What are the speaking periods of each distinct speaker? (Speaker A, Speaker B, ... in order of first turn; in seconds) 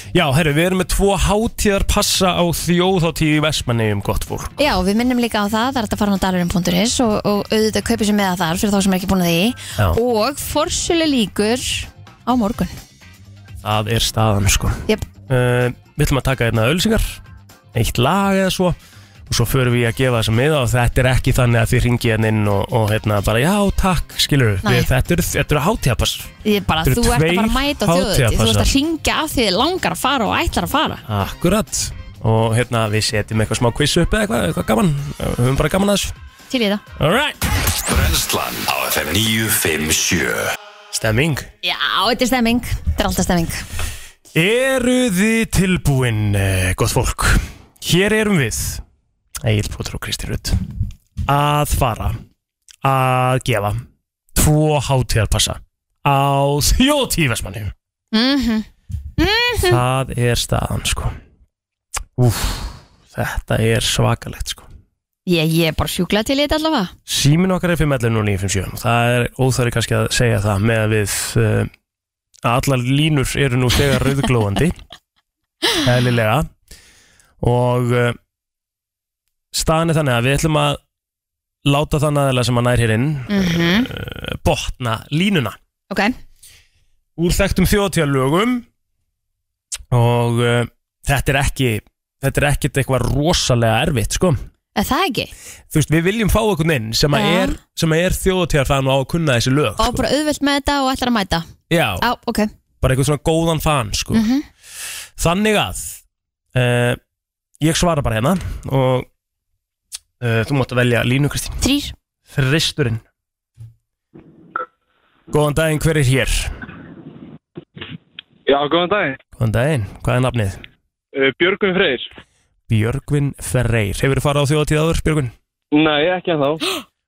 Speaker A: 0.1-4.7, 13.6-17.2, 17.7-18.8, 19.3-26.3, 26.9-28.7, 31.1-36.1, 37.0-37.4, 40.9-41.5, 44.4-48.8, 49.4-50.6, 51.3-52.2, 52.8-53.8, 54.4-57.7, 59.6-61.2, 62.2-64.7, 67.1-71.7, 72.4-74.8, 75.8-76.5, 77.4-78.2, 79.5-80.8, 81.7-85.6, 87.2-88.7, 89.9-94.4, 95.7-100.0, 101.7-102.1, 102.8-104.3, 105.2-106.0, 106.5-107.0, 107.6-109.1, 110.2-111.6, 112.3-113.0, 115.3-116.5, 119.4-120.6, 122.7-125.3
Speaker B: 4.6-12.7, 24.6-24.9, 26.4-31.0, 36.5-36.8, 41.6-43.6, 58.1-58.7, 59.2-59.8, 65.3-66.9, 83.3-83.9, 85.9-86.2, 94.8-95.3, 97.1-97.6, 99.8-101.5, 102.0-102.5, 104.1-104.5, 111.6-111.9
Speaker C: 37.8-40.5
Speaker D: 118.5-119.2, 121.1-122.1, 125.7-126.6